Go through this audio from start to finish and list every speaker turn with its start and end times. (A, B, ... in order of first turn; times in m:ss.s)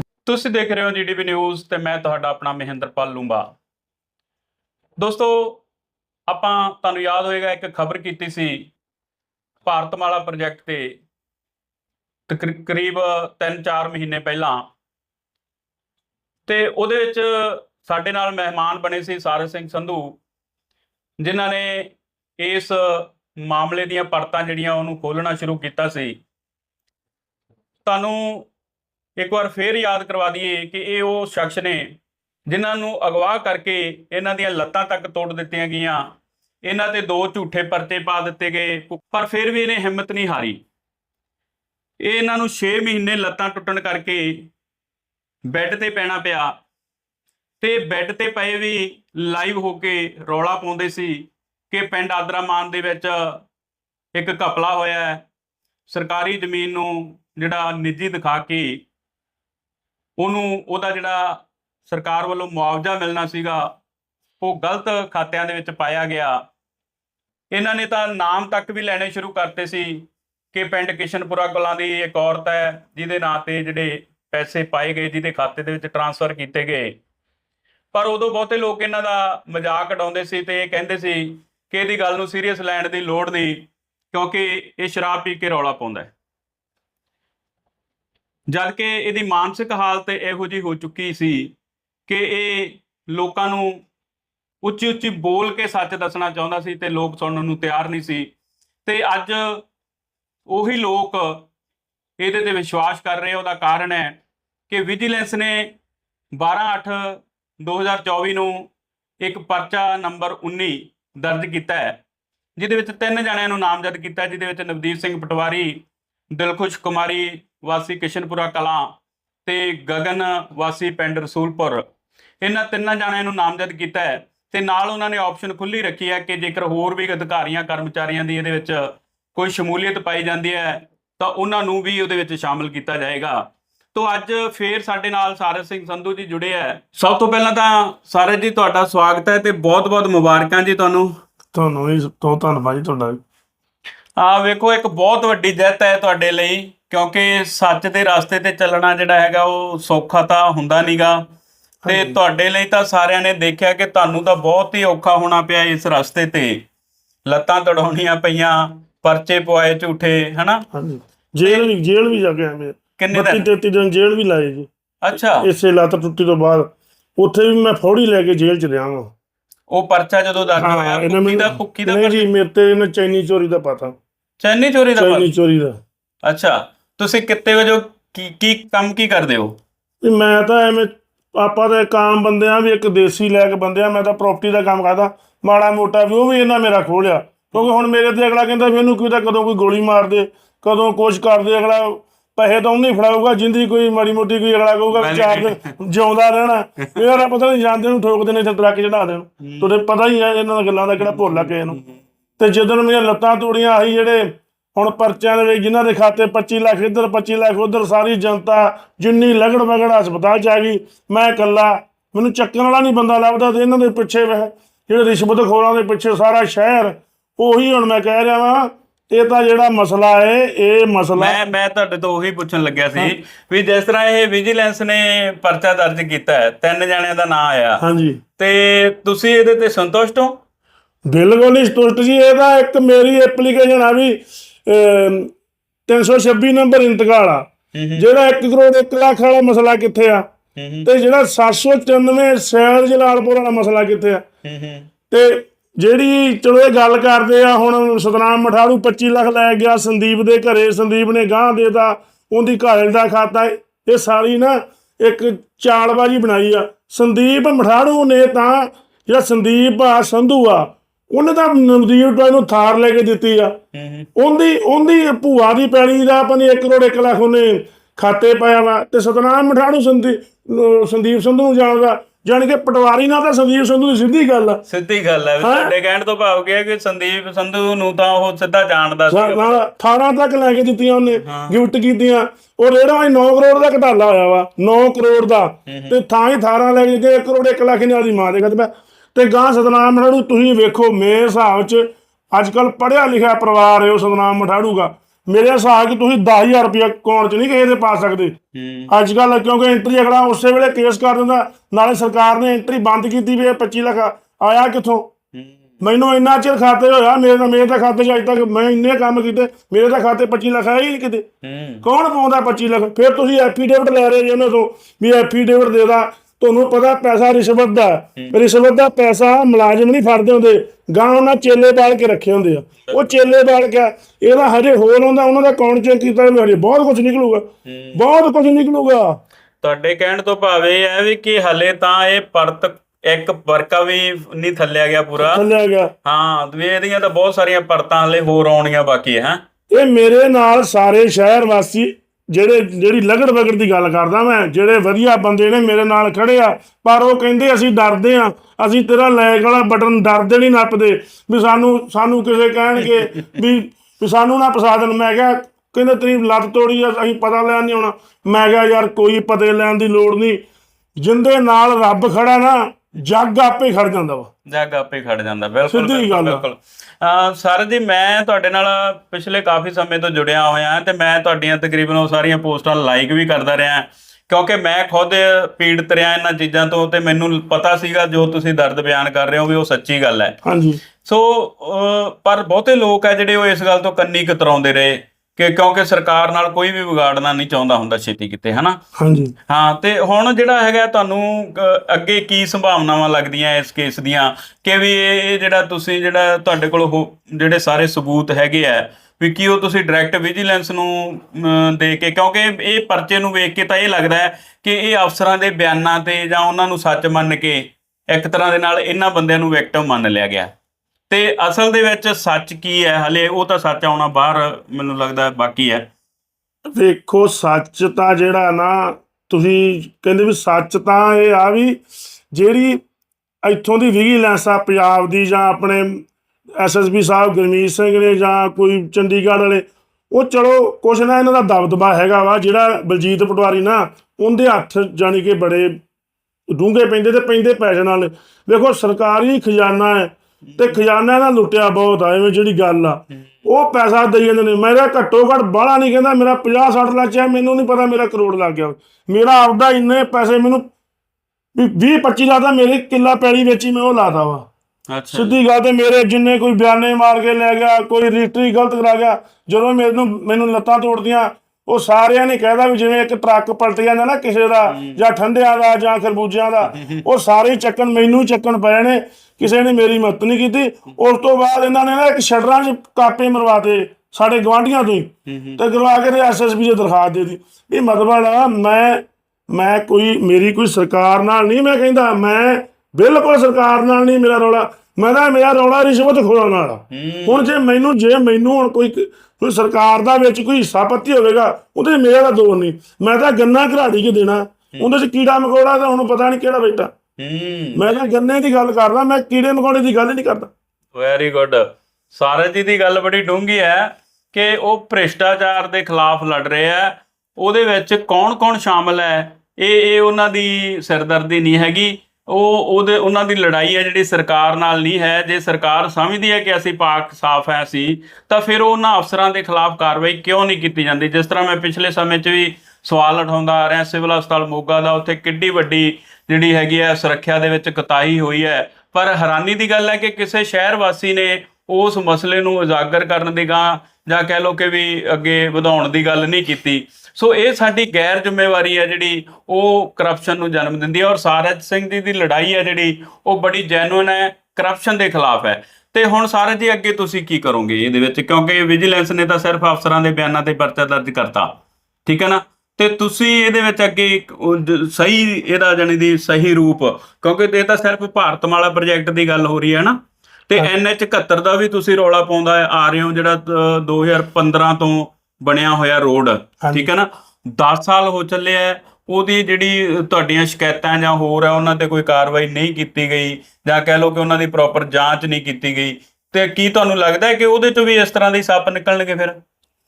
0:00.3-0:03.5 A
0:05.0-0:05.6 A
0:06.3-0:08.7 A
0:09.6-0:11.0 A
0:12.3-0:14.7 A
0:16.5-0:20.2 A
0:21.2-0:26.2 A
0:27.9-0:28.5 A
0:29.2-0:32.0 A
0:32.5-0:36.0 A
0:36.6-0:40.6 A
0:42.0-0:44.5 A
0:45.5-0:46.5 A
0:47.6-0:53.4 A
0:54.1-0:55.2 A
0:55.9-0:58.8 A
1:00.2-1:03.7 A
1:04.4-1:06.4 A
1:07.5-1:17.0 A
1:17.9-1:26.1 A
1:28.5-1:31.6 A
1:32.1-1:33.8 A
1:34.6-1:38.3 A
1:38.8-1:39.6 A
1:40.5-1:41.5 A
1:42.2-1:44.2 A
1:44.7-1:45.7 A
1:46.3-1:48.7 A
1:49.2-1:52.0 A
1:52.6-1:59.0 A
1:59.5-2:01.8 A
2:02.4-2:21.1 A
2:21.5-2:23.2 B
2:24.2-2:31.2 A
2:31.8-2:32.2 B
2:31.9-2:36.6 A
2:37.3-2:40.6 A
2:40.7-2:49.1 B
2:41.4-2:41.7 A
2:43.0-2:43.4 A
2:45.0-2:45.5 A
2:49.7-2:52.3 A
2:50.6-2:54.0 B
2:54.4-2:55.3 A
2:55.0-2:55.8 B
2:56.2-2:59.6 A
3:00.0-3:21.8 B
3:14.9-3:15.7 A
3:19.4-3:19.7 A
3:21.0-3:22.0 A
3:22.4-3:41.4 B
3:41.2-3:47.8 A
3:47.8-3:48.2 B
3:48.4-3:50.4 A
3:51.1-3:55.3 B
3:55.9-4:00.2 B
3:57.7-3:58.0 A
4:00.6-4:00.9 A
4:00.8-4:04.2 B
4:04.4-4:04.9 A
4:05.1-4:23.6 B
4:23.7-4:24.1 A
4:24.2-4:34.6 B
4:34.7-4:39.6 A
4:35.4-4:35.7 B
4:39.1-4:58.4 B
4:41.2-4:41.6 A
4:45.7-4:46.0 A
4:58.6-4:58.9 A
4:58.9-5:05.1 B
5:05.8-5:11.3 B
5:11.4-5:11.8 A
5:11.8-5:29.2 B
5:27.7-5:28.0 A
5:29.6-5:35.4 A
5:35.2-5:35.9 B
5:36.0-5:39.4 A
5:39.7-6:00.4 B
6:01.0-6:04.3 B
6:04.5-6:20.4 A
6:05.7-6:06.4 B
6:20.4-6:20.8 B
6:21.0-6:28.8 A
6:29.0-6:29.3 B
6:29.5-6:50.5 A
6:51.1-6:55.9 A
6:56.7-7:01.8 B
7:02.3-7:02.8 B
7:03.4-7:06.0 B
7:06.6-7:15.8 B
7:16.5-7:30.7 B
7:20.4-7:20.8 A
7:31.6-7:34.5 B
7:34.9-7:35.4 A
7:35.1-8:16.9 B
7:44.7-7:45.0 A
7:46.6-7:47.0 A
7:55.3-7:55.6 A
8:06.9-8:07.5 A
8:17.2-8:18.1 A
8:17.8-8:20.5 B
8:21.0-9:39.4 A
9:26.6-9:26.9 B